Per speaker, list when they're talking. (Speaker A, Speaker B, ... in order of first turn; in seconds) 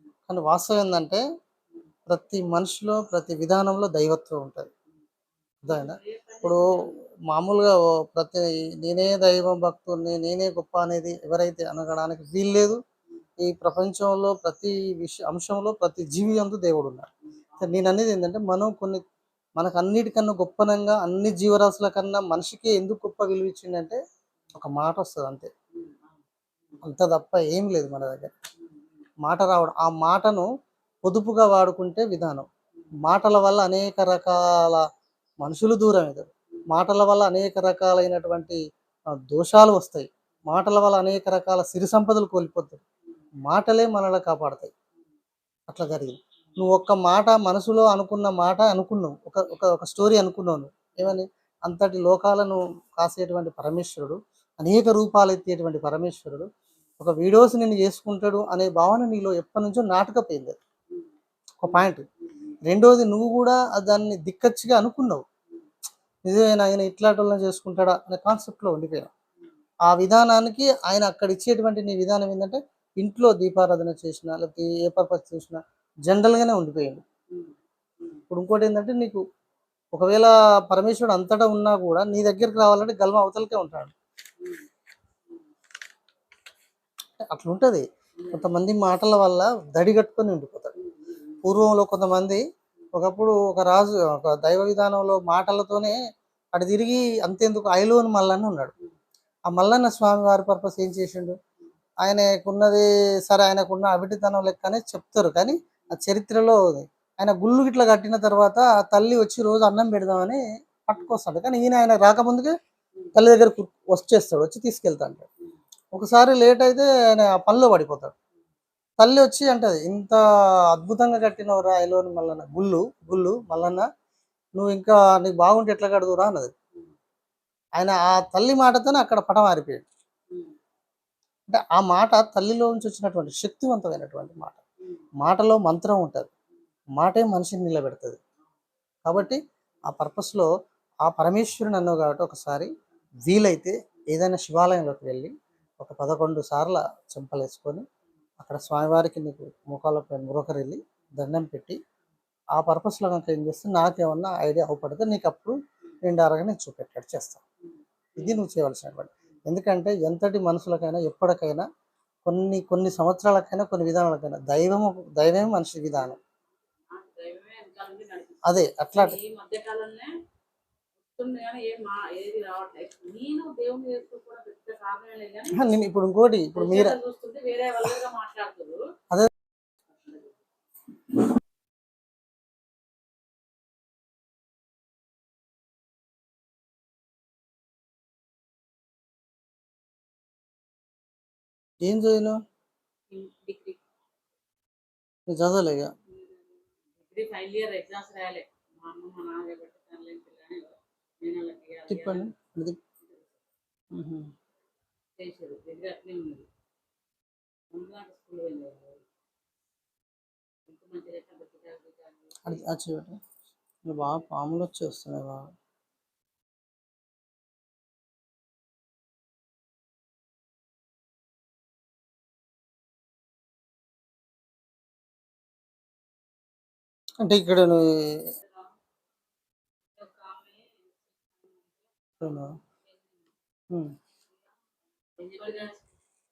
Speaker A: 0.3-1.2, 2.1-4.7, 5.6-6.7, 7.3-12.8, 13.4-17.1, 17.6-19.0, 19.6-24.0, 24.5-25.5, 26.8-28.3, 29.2-30.5, 31.1-32.5, 33.0-34.8, 35.4-38.6, 39.3-42.8, 43.5-44.7, 45.7-56.5, 57.0-60.5, 61.6-62.0, 62.7-65.2, 66.2-69.1, 69.9-77.0, 78.3-79.2, 79.9-83.9, 87.2-90.7, 91.4-92.4, 92.9-96.0, 96.5-98.7, 99.5-101.4, 102.0-112.5, 113.2-115.3, 115.9-118.2, 119.0-120.2, 120.7-123.9, 124.6-126.5, 127.8-129.8, 131.5-134.6, 135.2-136.3, 137.0-138.2, 139.1-140.5, 141.0-142.7, 143.3-147.8, 148.4-151.8, 152.5-157.4, 158.2-161.7, 162.3-166.2, 168.4-169.2, 175.6-176.9, 191.8-192.4, 195.3-195.9, 201.9-202.8, 203.9-204.3, 212.4-213.2, 213.9-215.4, 227.2-228.2, 232.2-232.6
Speaker B: 5.7-7.0, 17.2-17.8, 25.7-26.8, 28.6-29.1, 61.6-62.5, 77.3-78.2, 84.4-84.7, 88.2-88.5, 90.8-91.6, 134.8-135.1, 157.7-158.4, 166.9-170.1, 171.1-175.6, 176.5-178.8, 179.9-180.3, 193.1-193.8, 196.1-196.4, 197.0-202.3, 203.0-203.4, 205.2-206.5, 207.7-209.0, 210.7-212.6, 228.4-228.7, 230.0-233.2, 235.2-235.8